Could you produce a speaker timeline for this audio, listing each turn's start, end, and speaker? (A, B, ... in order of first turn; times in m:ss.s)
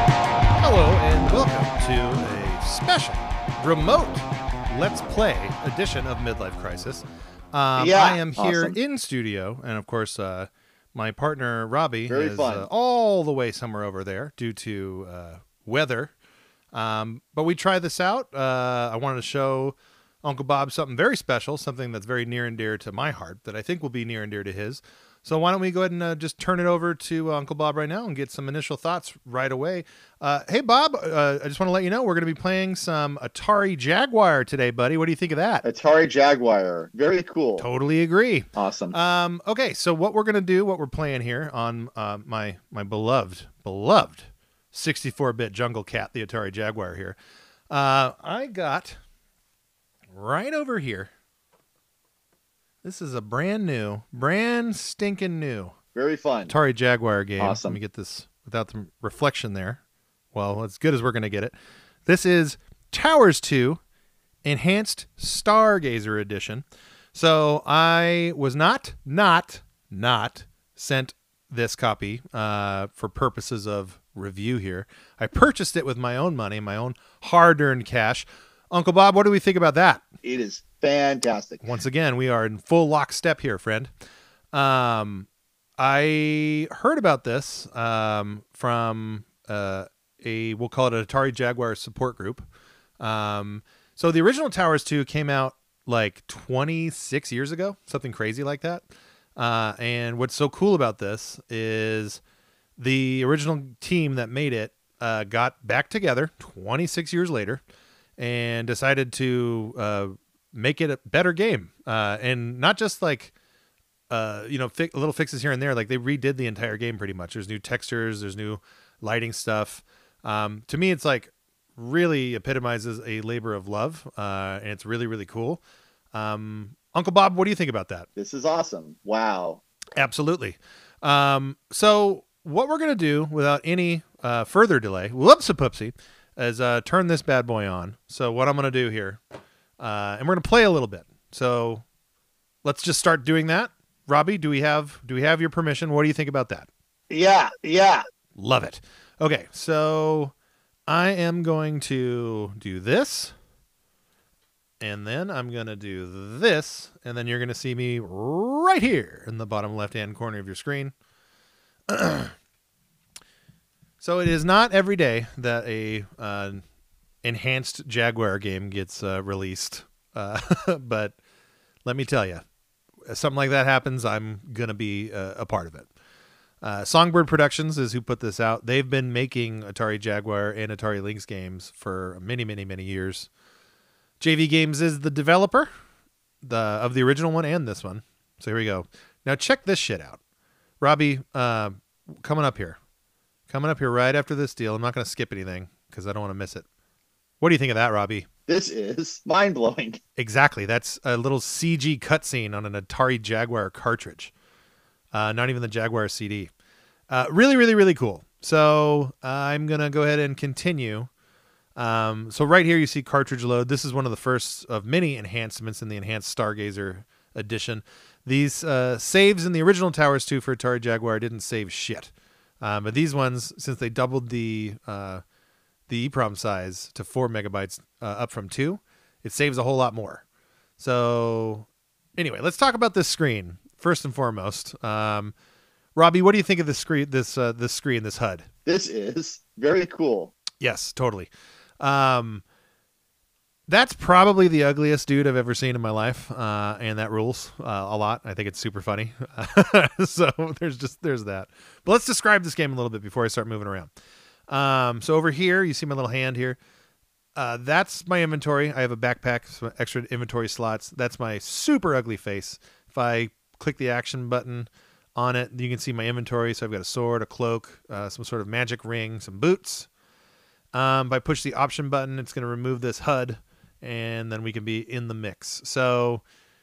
0:00.6-0:16.1 A
0:07.8-0:08.8 B
0:12.1-0:12.7 B
0:16.7-0:35.7 A
0:35.6-0:37.7 B
0:37.6-0:47.2 A
0:38.6-0:39.0 B
0:47.7-0:49.0 A
0:50.1-0:51.1 A
0:52.8-0:55.8 A
0:56.0-0:56.5 B
0:56.5-0:59.8 A
0:57.4-0:57.8 B
1:00.3-1:01.6 A
1:02.1-1:03.8 A
1:04.4-1:20.1 A
1:20.2-1:21.6 B
1:21.6-1:23.9 A
1:24.5-1:32.5 A
1:33.0-1:42.2 A
1:42.8-1:47.6 A
1:48.2-1:53.3 A
1:54.1-2:05.6 A
2:06.1-2:08.1 A
2:08.2-2:09.6 B
2:10.0-2:19.2 A
2:19.8-2:21.8 A
2:22.6-2:26.7 A
2:27.1-2:28.0 B
2:28.4-2:30.3 A
2:30.9-2:33.4 A
2:34.8-2:40.9 A
2:41.9-2:42.3 A
2:44.0-2:46.6 A
2:47.2-2:51.2 A
2:51.8-2:52.4 A
2:53.1-2:55.9 A
2:56.6-3:03.3 A
3:04.2-3:05.7 A
3:06.4-3:10.2 A
3:10.8-3:12.8 A
3:13.5-3:16.7 A
3:17.4-3:18.3 A
3:18.5-3:20.0 B
3:20.2-3:24.3 A
3:25.1-3:26.5 A
3:27.1-3:31.1 A
3:31.8-3:45.2 A
3:45.9-3:50.2 A
3:50.8-3:55.3 A
3:56.0-3:58.5 A
3:58.7-4:00.3 B
4:00.6-4:02.4 A
4:03.7-4:13.9 A
4:14.5-4:16.6 A
4:17.4-4:29.9 A
4:30.7-4:36.2 A